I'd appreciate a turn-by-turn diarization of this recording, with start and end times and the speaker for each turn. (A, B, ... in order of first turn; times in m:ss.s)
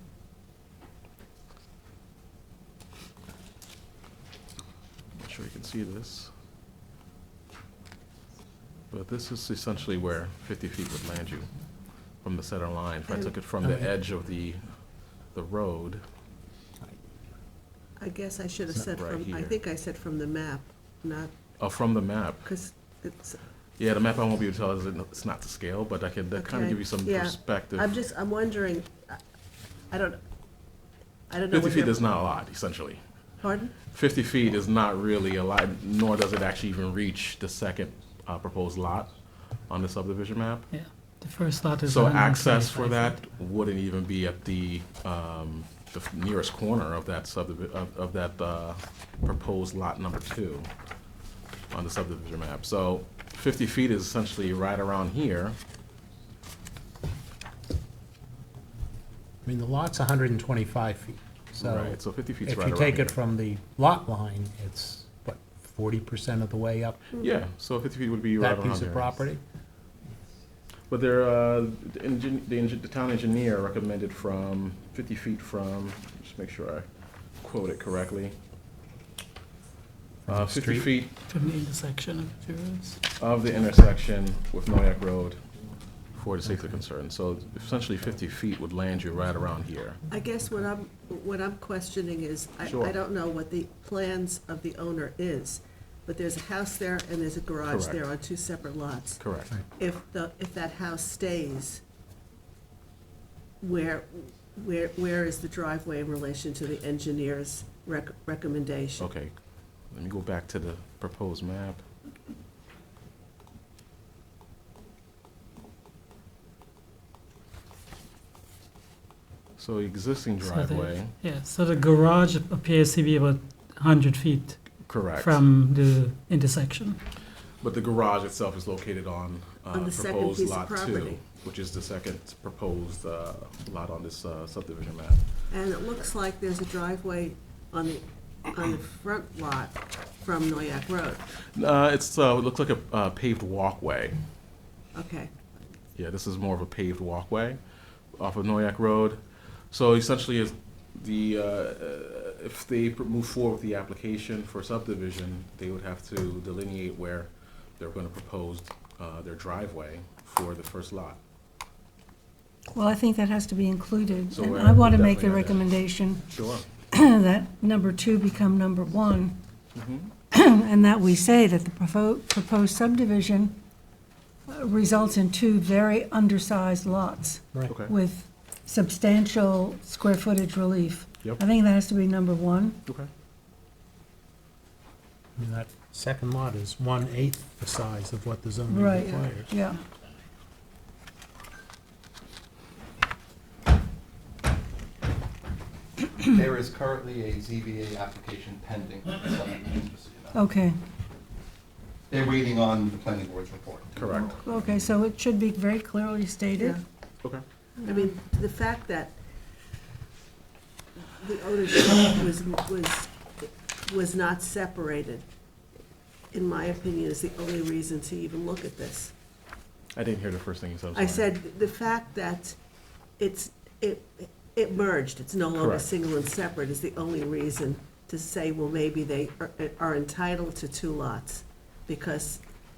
0:05.2-0:06.3 A
0:08.9-0:11.5 A
0:12.2-0:14.6 A
0:15.3-0:16.0 A
0:18.0-0:21.3 B
0:18.9-0:19.5 A
0:21.6-0:22.5 A
0:22.4-0:23.4 B
0:23.8-0:27.9 A
0:26.3-0:29.2 B
0:29.9-0:30.2 B
0:31.3-0:32.1 B
0:31.5-0:33.0 A
0:33.4-0:33.7 B
0:33.8-0:39.1 A
0:39.7-0:40.7 A
0:40.7-0:43.2 C
0:41.8-0:50.7 A
0:51.7-0:55.6 A
0:59.4-1:07.0 D
1:01.6-1:03.2 A
1:07.2-1:09.2 A
1:08.4-1:09.4 D
1:10.9-1:16.9 A
1:17.4-1:18.4 A
1:20.2-1:20.9 D
1:20.3-1:21.2 A
1:21.3-1:23.0 C
1:23.2-1:25.4 A
1:26.1-1:30.0 A
1:30.1-1:39.2 B
1:32.6-1:32.9 A
1:37.6-1:38.0 A
1:39.2-1:39.5 A
1:39.7-1:41.8 B
1:43.6-1:49.1 B
1:49.0-1:49.4 A
1:49.9-1:51.8 A
1:59.6-2:01.1 A
2:00.4-2:07.0 C
2:04.8-2:05.4 A
2:07.6-2:15.2 A
2:09.7-2:11.2 B
2:15.5-2:21.2 B
2:21.5-2:24.2 A
2:24.9-2:25.3 B
2:26.0-2:27.6 A
2:28.2-2:41.2 A
2:42.7-2:46.3 E
2:44.3-2:45.6 A
2:46.3-2:46.6 A
2:46.9-2:49.4 E
2:49.7-2:50.1 A
2:50.3-2:53.6 E
2:54.5-3:02.8 E
2:57.7-2:57.9 A
3:05.4-3:09.5 D
3:08.7-3:09.8 E
3:16.2-3:20.4 F
3:20.3-3:20.8 E
3:22.1-3:24.4 F
3:23.9-3:24.4 A
3:24.4-3:26.8 E
3:27.8-3:28.1 E
3:27.8-3:29.2 B
3:31.1-3:35.2 B
3:36.3-3:39.1 B
3:39.9-3:41.3 A
3:40.9-3:42.6 B
3:43.2-3:52.4 B
3:45.5-3:45.9 A